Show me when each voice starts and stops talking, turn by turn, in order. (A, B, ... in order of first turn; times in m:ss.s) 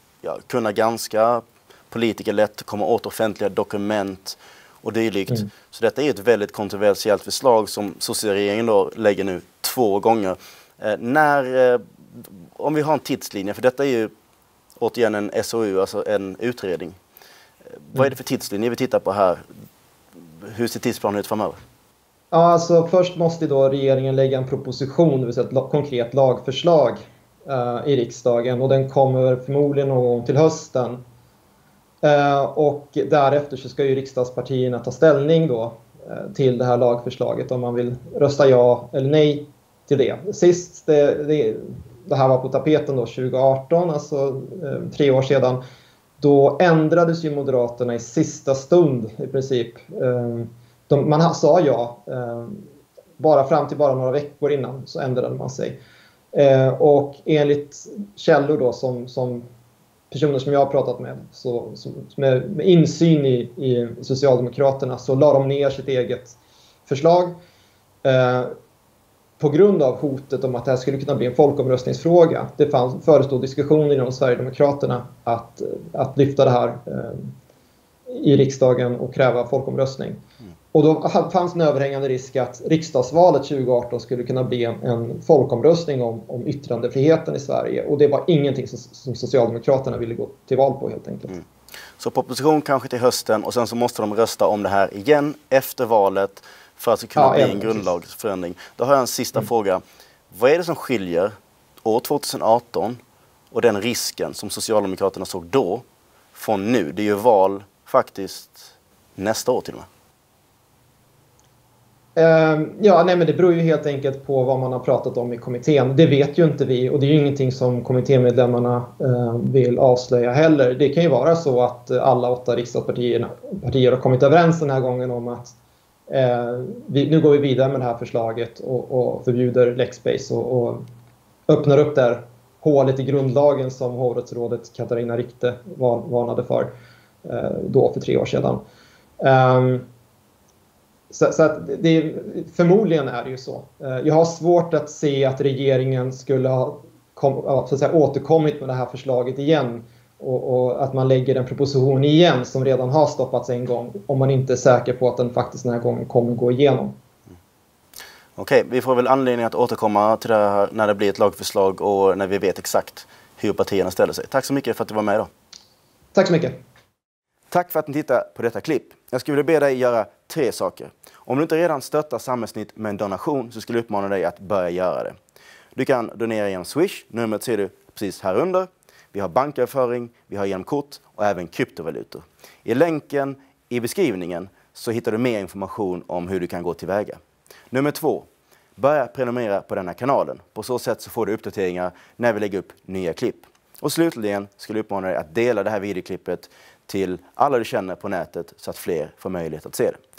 0:00.2-0:14.1 A
0:14.8-0:17.0 A
0:17.7-0:19.4 A
0:20.4-0:21.6 A
0:22.3-0:31.0 B
0:32.0-0:45.6 B
0:46.2-0:52.6 B
0:53.2-0:55.8 B
0:56.3-0:59.5 B
1:00.1-1:07.4 B
1:08.0-1:08.5 B
1:09.4-1:17.3 B
1:18.1-1:20.2 B
1:20.7-1:31.4 B
1:32.0-1:43.0 A
1:37.2-1:37.9 B
1:43.5-1:49.9 A
1:52.2-2:05.6 B
2:06.1-2:10.8 B
2:11.5-2:16.7 B
2:17.2-2:18.6 B
2:19.2-2:19.9 B
2:21.1-2:37.0 B
2:38.4-2:45.3 A
2:46.1-2:46.6 B
2:47.5-2:55.2 A
2:55.7-3:07.2 A
3:07.7-3:20.0 A